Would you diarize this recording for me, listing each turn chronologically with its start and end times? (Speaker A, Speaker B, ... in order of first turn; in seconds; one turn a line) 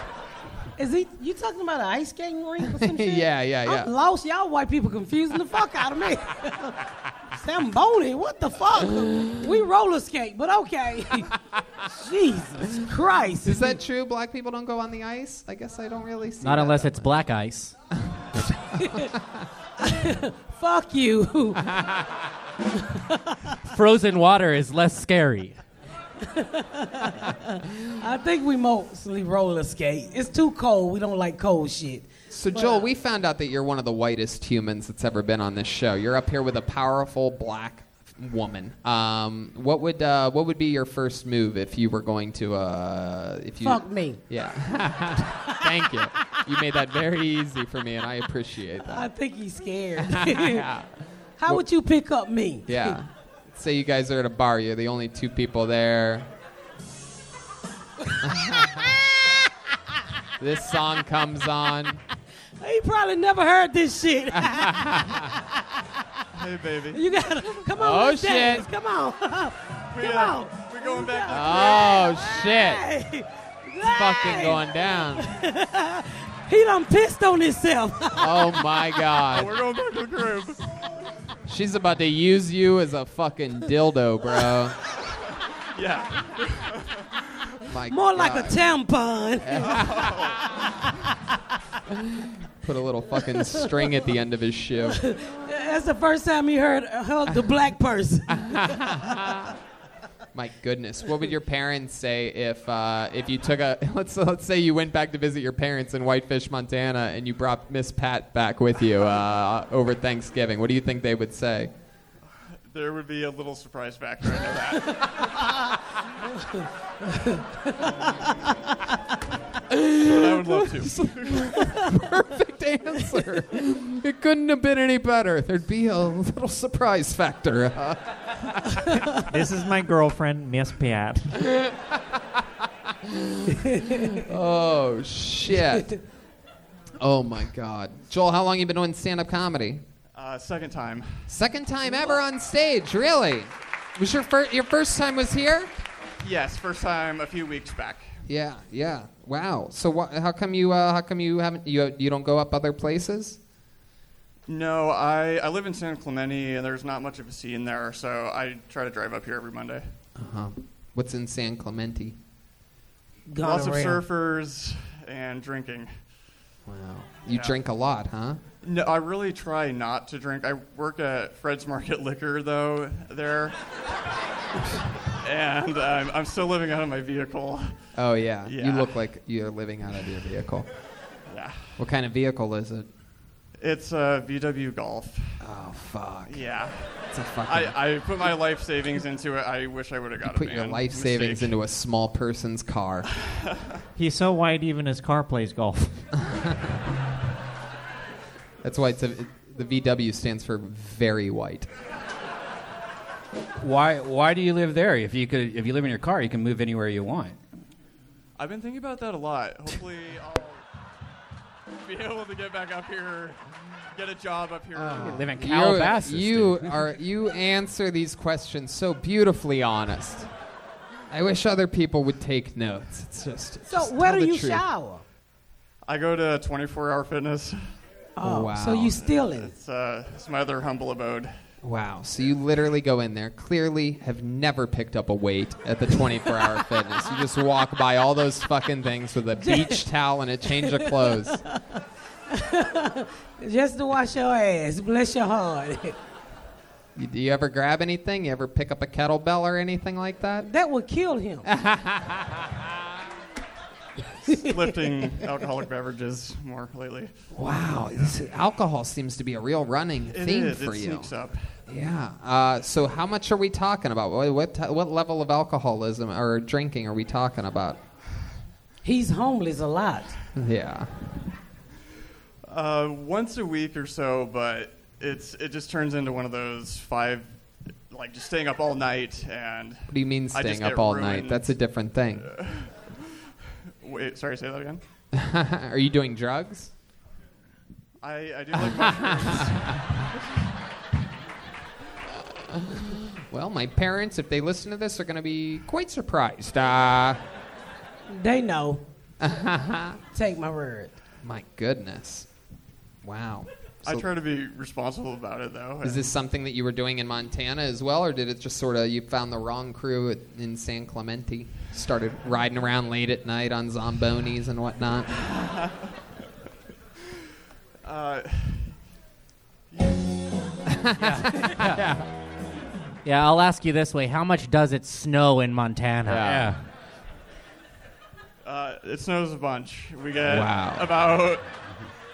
Speaker A: 0.8-11.3
Speaker B: 2.7-3.9
Speaker A: 11.8-13.7
Speaker B: 13.4-17.1
Speaker C: 16.4-17.7
Speaker A: 18.8-19.1
Speaker B: 18.9-19.3
Speaker A: 19.8-21.6
Speaker B: 21.7-22.2
Speaker A: 22.7-23.5
Speaker C: 23.6-25.6
Speaker A: 26.2-32.9
Speaker B: 32.3-49.1
Speaker A: 43.6-44.2
Speaker A: 48.8-50.7
Speaker B: 50.0-50.9
Speaker A: 51.4-53.0
Speaker B: 52.7-56.3
Speaker A: 58.1-59.4
Speaker B: 58.2-58.9
Speaker B: 60.4-62.0
Speaker A: 62.6-65.8
Speaker B: 64.3-65.3
Speaker D: 66.3-67.5
Speaker A: 66.9-78.5
Speaker B: 67.8-68.7
Speaker D: 69.9-72.0
Speaker B: 71.3-72.8
Speaker B: 73.8-75.3
Speaker B: 78.1-79.5
Speaker D: 79.3-80.6
Speaker B: 81.5-84.8
Speaker D: 85.7-87.2
Speaker B: 87.7-88.6
Speaker A: 87.9-89.8
Speaker B: 89.4-90.1
Speaker D: 89.6-90.6
Speaker A: 90.5-90.8
Speaker B: 92.0-95.0
Speaker A: 94.9-99.2
Speaker B: 98.3-99.5
Speaker B: 100.3-111.7
Speaker D: 112.7-115.3
Speaker A: 116.4-117.9
Speaker B: 119.7-128.0
Speaker D: 120.0-121.8
Speaker E: 129.1-131.4
Speaker B: 133.0-133.5
Speaker A: 133.6-134.2
Speaker B: 134.2-135.9
Speaker B: 137.0-139.8
Speaker D: 140.2-141.3
Speaker B: 141.3-145.7
Speaker D: 146.2-148.2
Speaker B: 148.3-153.4
Speaker D: 154.5-159.8
Speaker B: 160.2-162.2
Speaker A: 163.3-164.0
Speaker D: 163.4-165.9
Speaker B: 166.7-168.4
Speaker D: 167.3-167.5
Speaker D: 168.6-173.6
Speaker D: 175.2-177.7
Speaker B: 177.9-180.7
Speaker D: 178.4-178.9
Speaker D: 181.3-181.8
Speaker B: 181.8-182.9
Speaker D: 183.6-185.3
Speaker B: 185.4-186.4
Speaker D: 186.3-186.9
Speaker B: 187.1-187.8
Speaker D: 187.4-191.5
Speaker B: 190.2-193.1
Speaker D: 193.2-193.8
Speaker E: 194.0-196.1
Speaker B: 196.2-196.6
Speaker B: 198.6-201.7
Speaker F: 203.6-207.4
Speaker D: 208.4-210.6
Speaker D: 211.8-213.4
Speaker D: 213.9-215.3
Speaker F: 214.8-216.7
Speaker B: 214.8-220.3
Speaker B: 221.1-224.7
Speaker A: 223.7-225.0
Speaker D: 225.9-227.6
Speaker A: 228.2-229.5
Speaker B: 228.2-229.0
Speaker D: 229.0-231.3
Speaker B: 231.6-241.4
Speaker A: 239.4-239.8
Speaker A: 240.5-245.9
Speaker B: 246.9-250.5
Speaker A: 250.4-251.5
Speaker B: 251.5-252.6
Speaker D: 254.3-257.1
Speaker B: 257.3-261.1
Speaker D: 260.1-261.5
Speaker B: 261.7-267.8
Speaker A: 268.8-270.2
Speaker B: 270.3-270.9
Speaker D: 272.5-277.3
Speaker D: 277.9-281.5
Speaker B: 279.9-282.3
Speaker D: 282.2-282.8
Speaker D: 283.8-284.8
Speaker B: 285.1-286.7
Speaker D: 288.0-290.1
Speaker B: 288.5-289.8
Speaker B: 292.3-297.2
Speaker A: 298.1-298.8
Speaker B: 299.2-300.0
Speaker A: 300.1-300.9
Speaker B: 301.2-302.3
Speaker B: 303.0-304.1
Speaker D: 303.9-306.1
Speaker B: 305.8-315.1
Speaker D: 315.2-315.9
Speaker D: 317.8-318.8
Speaker D: 319.7-320.1
Speaker B: 320.7-322.1
Speaker F: 321.1-321.8
Speaker C: 321.4-321.7
Speaker C: 323.0-326.4
Speaker B: 326.1-326.5
Speaker F: 326.1-326.6
Speaker D: 328.4-331.4
Speaker B: 330.2-330.9